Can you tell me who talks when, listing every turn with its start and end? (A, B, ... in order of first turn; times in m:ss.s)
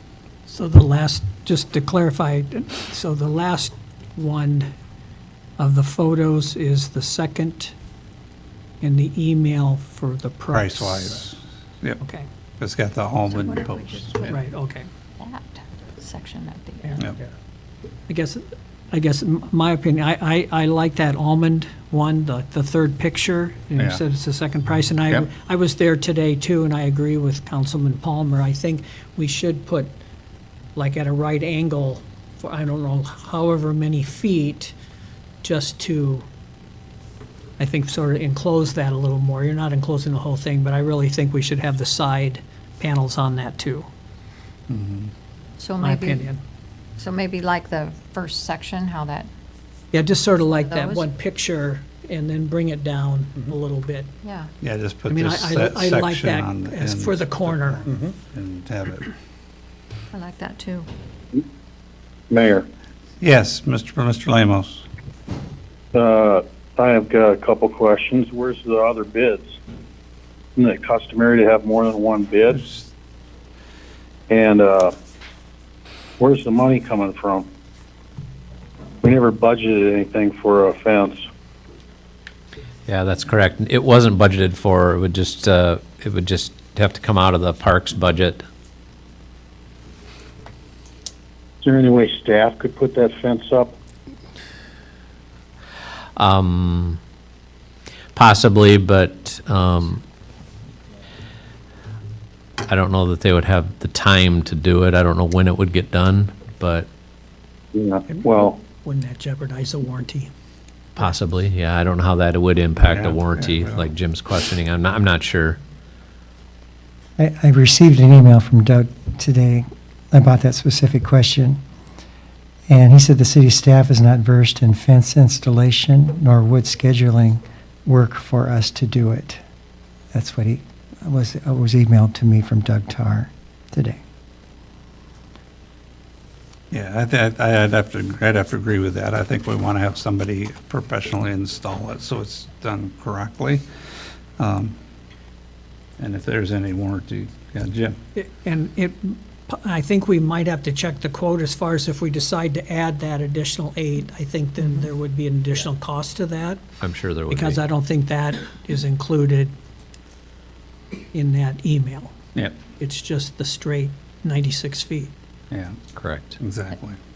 0:00.5-0:04.7 A
0:05.6-0:07.7 A
0:08.8-0:11.3 A
0:10.5-0:12.0 B
0:12.0-0:12.3 A
0:12.6-0:14.4 B
0:13.3-0:14.4 C
0:14.3-0:14.9 A
0:15.2-0:17.0 C
0:16.8-0:17.3 A
0:18.1-0:29.9 A
0:30.8-0:34.7 A
0:35.4-0:36.2 A
0:37.6-0:43.9 A
0:44.7-0:45.1 B
0:45.6-0:46.3 C
0:45.8-0:46.4 A
0:47.0-0:49.3 C
0:49.9-0:54.1 A
0:50.4-0:51.1 C
0:54.2-0:54.5 C
0:54.6-0:59.1 B
0:55.1-0:57.8 A
1:00.1-1:00.9 C
1:02.3-1:02.7 D
1:03.2-1:04.9 B
1:05.9-1:09.4 D
1:10.6-1:12.7 D
1:14.3-1:15.0 D
1:16.2-1:17.5 D
1:19.0-1:21.2 D
1:22.9-1:28.4 E
1:31.6-1:33.8 D
1:36.2-1:37.0 E
1:38.2-1:40.0 E
1:42.6-1:46.9 E
1:47.7-1:48.7 D
1:48.1-1:50.3 A
1:51.0-1:55.6 E
1:52.8-1:53.9 B
1:57.2-2:01.6 F
2:02.7-2:09.4 F
2:10.1-2:14.0 F
2:16.7-2:23.6 B
2:24.4-2:24.8 B
2:26.0-2:28.0 B
2:28.2-2:36.6 A
2:36.8-2:37.6 E
2:37.3-2:39.5 A
2:41.1-2:42.2 A
2:42.8-2:45.1 A
2:45.5-2:45.8 B
2:46.0-2:46.4 E
2:46.4-2:47.0 B